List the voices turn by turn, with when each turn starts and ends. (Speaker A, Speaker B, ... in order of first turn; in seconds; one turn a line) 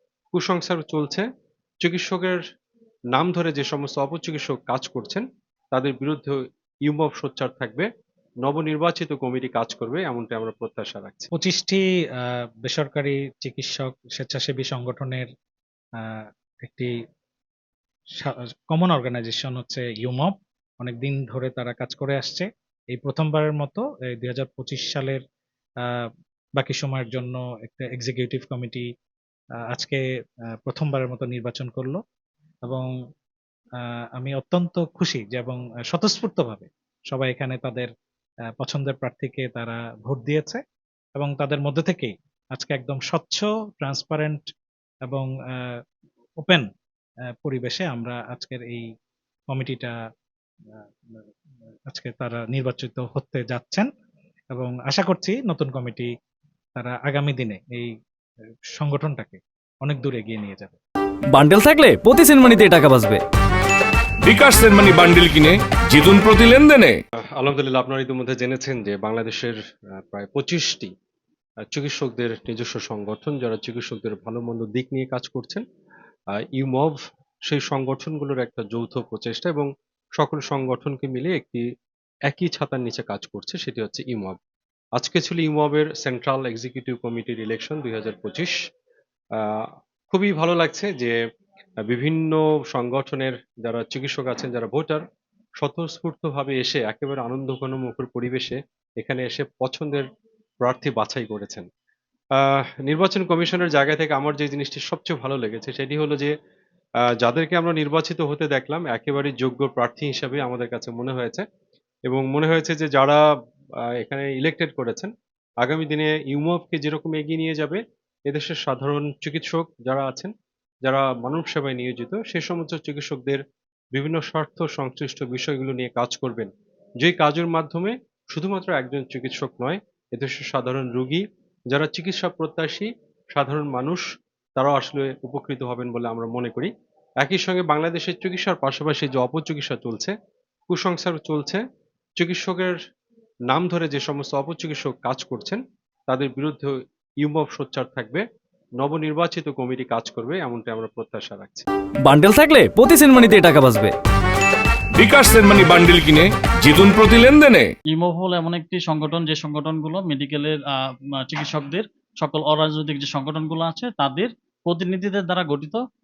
Speaker A: 0.3-1.2
Speaker A: 1.8-2.4
Speaker A: 3.1-7.9
Speaker A: 8.4-11.3
Speaker B: 11.3-15.3
Speaker B: 16.0-16.9
Speaker B: 18.2-25.2
Speaker B: 26.6-28.9
Speaker B: 29.7-30.0
Speaker B: 30.6-32.0
Speaker B: 33.8-37.9
Speaker B: 38.6-40.6
Speaker B: 41.1-44.4
Speaker B: 45.1-45.7
Speaker B: 47.4-48.9
Speaker B: 49.5-49.9
Speaker B: 50.8-51.3
Speaker B: 51.9-53.9
Speaker B: 54.5-56.1
Speaker B: 56.8-57.9
Speaker B: 58.8-60.8
Speaker C: 61.3-63.2
Speaker D: 64.2-66.9
Speaker A: 67.3-70.9
Speaker A: 71.7-75.6
Speaker A: 76.3-81.7
Speaker A: 82.3-84.4
Speaker A: 85.0-88.5
Speaker A: 89.4-91.2
Speaker A: 91.9-95.0
Speaker A: 95.6-100.0
Speaker A: 100.6-101.7
Speaker A: 102.4-106.3
Speaker A: 107.2-111.4
Speaker A: 112.1-113.2
Speaker A: 114.0-120.3
Speaker A: 120.8-123.4
Speaker A: 123.9-134.1
Speaker A: 134.6-140.1
Speaker A: 140.7-141.6
Speaker A: 142.2-142.8
Speaker A: 143.5-148.2
Speaker A: 148.8-151.7
Speaker C: 152.0-153.9
Speaker D: 154.9-157.7
Speaker E: 157.9-165.8